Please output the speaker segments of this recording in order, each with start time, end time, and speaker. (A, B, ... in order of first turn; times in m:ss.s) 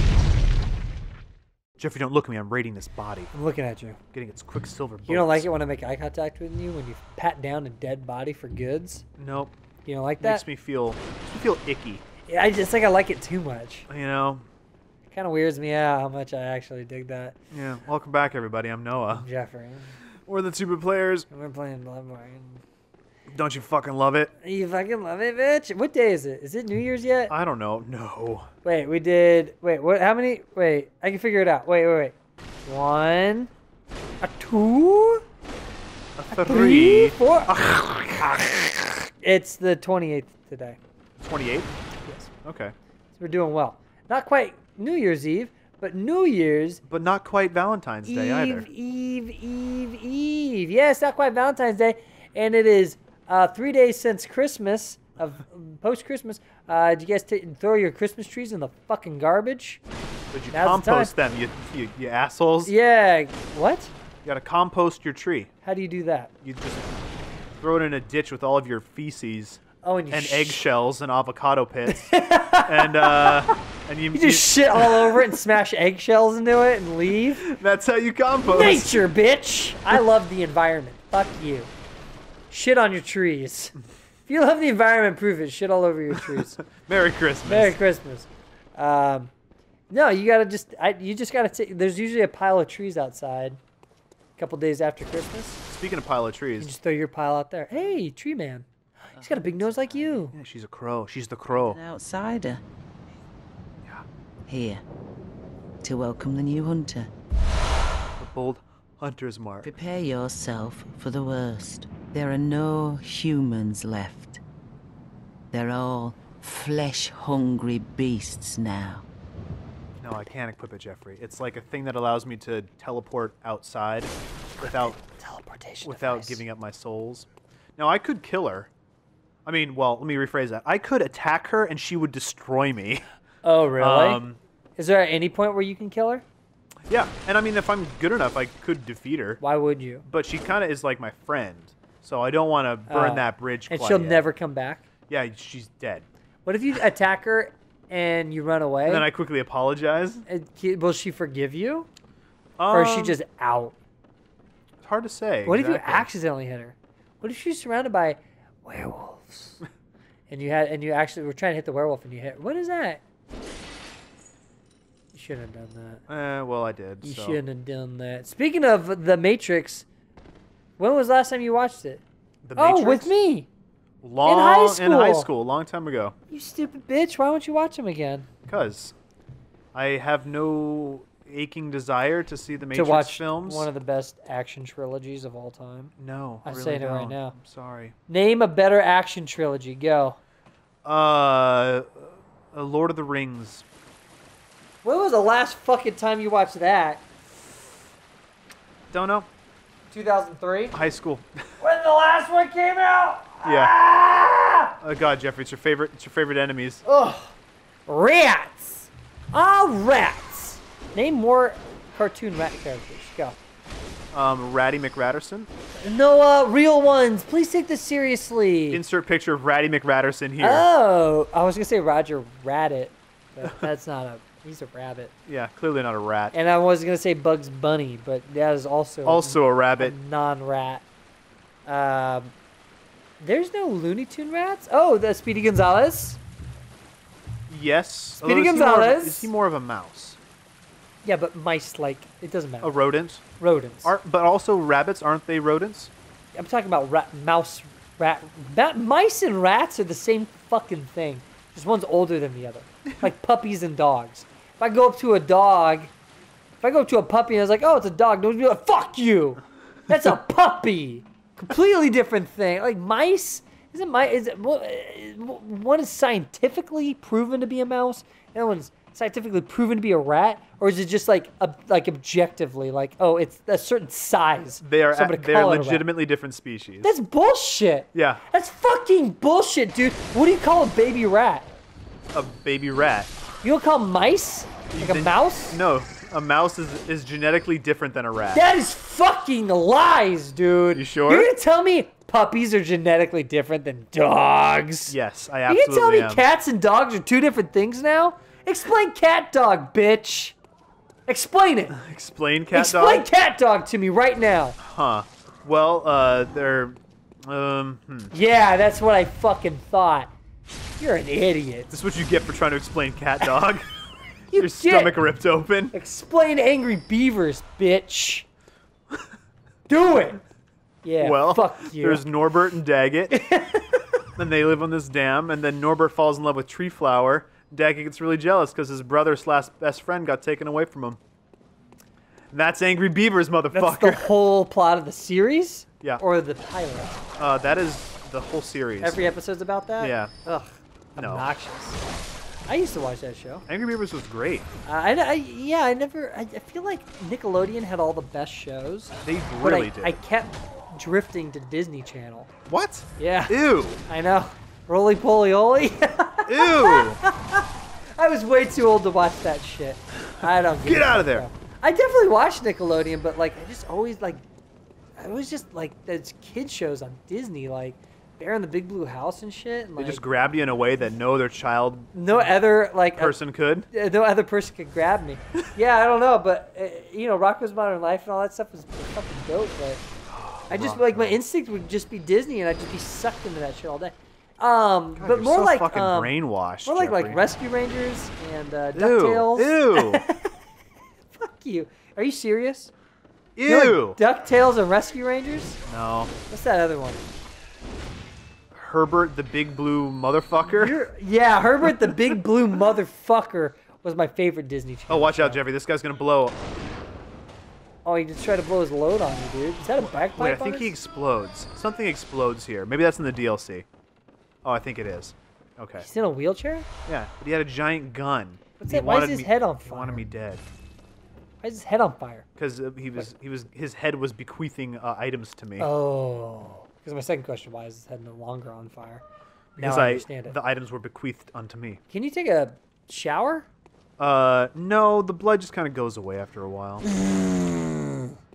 0:01.8-0:03.3 A
0:03.3-0:04.0 B
0:04.1-0:05.5 A
0:05.1-0:09.0 B
0:09.2-0:09.5 A
0:09.8-0:10.4 B
0:10.2-0:12.0 A
0:12.3-0:13.9 B
0:13.9-0:14.4 A
0:15.1-0:17.4 B
0:17.5-0:19.2 A
0:19.1-0:20.0 B
0:20.2-0:21.3 A
0:21.3-0:22.6 B
0:23.3-0:24.3 A
0:24.4-0:27.3 B
0:27.3-0:28.5 A
0:28.6-0:32.1 B
0:32.6-0:33.5 B
0:34.2-0:35.2 B
0:36.2-0:38.4 A
0:36.4-0:40.8 B
0:41.2-0:41.7 A
0:42.4-0:42.7 A
0:43.2-0:46.8 B
0:46.9-0:48.7 A
0:48.0-0:59.8 B
1:00.3-1:02.7 A
1:00.5-1:01.1 B
1:02.6-1:03.9 B
1:04.2-1:05.5 A
1:05.6-1:06.3 B
1:06.4-1:06.9 A
1:07.6-1:12.1 A
1:09.8-1:10.7 B
1:11.9-1:13.6 B
1:12.7-1:15.3 A
1:14.1-1:17.4 B
1:17.4-1:19.1 A
1:18.4-1:21.7 B
1:22.5-1:23.8 B
1:24.3-1:26.6 B
1:26.3-1:27.8 A
1:27.4-1:29.3 B
1:29.9-1:33.6 B
1:34.4-1:35.6 B
1:35.7-1:36.7 A
1:36.6-1:40.4 B
1:39.1-1:40.3 C
1:40.3-1:41.8 A
1:41.5-1:42.6 C
1:44.5-1:44.8 C
1:45.8-1:47.1 C
1:48.2-1:49.7 A
1:49.6-1:54.4 C
1:55.5-1:59.0 C
2:00.0-2:05.0 A
2:04.6-2:06.4 B
2:05.8-2:08.7 A
2:09.5-2:13.0 A
2:13.4-2:14.2 B
2:13.8-2:14.4 A
2:14.8-2:16.2 B
2:16.9-2:19.4 A
2:19.4-2:20.0 B
2:20.0-2:24.3 A
2:22.9-2:24.9 B
2:25.1-2:26.1 A
2:26.4-2:29.1 B
2:28.9-2:30.2 A
2:30.3-2:31.9 B
2:32.6-2:33.2 A
2:32.7-2:33.7 B
2:34.8-2:36.1 A
2:35.4-2:39.6 B
2:40.3-2:43.0 B
2:45.1-2:46.0 B
2:46.1-2:47.4 A
2:47.0-2:49.8 B
2:50.8-2:52.0 B
2:52.4-2:53.1 A
2:52.6-2:53.5 B
2:54.0-2:56.2 A
2:54.2-2:55.3 B
2:56.3-2:58.3 B
2:58.5-2:59.0 A
2:59.7-3:03.7 A
3:02.7-3:05.9 B
3:06.0-3:08.0 A
3:06.4-3:07.4 B
3:08.1-3:10.2 B
3:10.8-3:13.6 A
3:14.8-3:17.0 B
3:18.9-3:19.3 A
3:19.9-3:20.8 B
3:20.7-3:21.4 A
3:21.6-3:24.7 B
3:23.4-3:23.7 A
3:24.8-3:26.8 A
3:26.8-3:27.3 B
3:27.9-3:33.4 B
3:34.1-3:35.5 A
3:35.8-3:38.8 B
3:38.7-3:40.7 A
3:40.4-3:45.1 B
3:45.3-3:46.4 A
3:46.3-3:50.8 B
3:49.0-3:50.0 A
3:51.7-3:52.3 B
3:53.2-3:56.2 B
3:57.5-4:00.2 A
3:58.2-3:59.3 B
4:01.0-4:02.8 B
4:02.6-4:03.2 A
4:03.4-4:03.9 B
4:03.8-4:05.9 A
4:06.4-4:15.9 B
4:16.6-4:35.9 B
4:34.6-4:37.0 A
4:36.8-4:41.5 B
4:37.9-4:38.2 A
4:42.1-4:43.1 A
4:43.4-4:45.6 B
4:44.8-4:48.4 A
4:48.3-4:55.0 B
4:50.7-4:51.3 A
4:54.9-4:56.2 A
4:55.5-5:00.4 B
5:01.1-5:01.8 B
5:01.7-5:03.1 A
5:02.5-5:04.6 B
5:04.6-5:08.1 A
5:08.1-5:10.1 B
5:10.8-5:11.7 B
5:11.7-5:13.7 A
5:14.3-5:15.0 B
5:14.3-5:15.7 A
5:15.7-5:18.3 B
5:19.7-5:20.2 B
5:20.8-5:22.1 B
5:21.0-5:23.2 A
5:23.1-5:23.9 B
5:24.2-5:31.0 A
5:32.3-5:34.1 A
5:33.5-5:37.0 B
5:37.2-5:39.0 A
5:38.8-5:41.8 B
5:39.8-5:40.1 A
5:41.0-5:41.3 A
5:42.5-5:43.4 B
5:43.5-5:44.5 A
5:44.6-5:52.3 B
5:49.0-5:50.0 A
5:52.5-5:53.8 A
5:53.0-5:53.4 B
5:53.9-6:04.2 B
5:56.3-5:57.0 A
6:00.6-6:01.3 A
6:05.0-6:10.0 B
6:09.8-6:11.9 A
6:11.9-6:13.2 B
6:13.0-6:13.7 A
6:13.7-6:19.8 B
6:20.1-6:21.2 A
6:20.5-6:30.3 B
6:25.0-6:27.2 A
6:28.8-6:30.0 A
6:31.1-6:32.7 B
6:33.4-6:34.0 A
6:33.4-6:35.6 B
6:35.7-6:36.1 A
6:36.3-6:37.0 B
6:38.6-6:40.8 A
6:40.5-6:45.4 B
6:44.9-6:46.4 A
6:47.8-6:50.7 B
6:49.8-6:53.7 A
6:54.4-6:55.9 A
6:55.8-6:56.7 B
6:56.9-7:00.4 A
6:58.6-7:00.0 B
7:01.4-7:02.2 B
7:02.4-7:05.7 A
7:05.6-7:09.0 B
7:09.6-7:11.8 A
7:09.6-7:10.4 B
7:11.9-7:13.5 B
7:14.0-7:16.8 A
7:17.0-7:18.0 B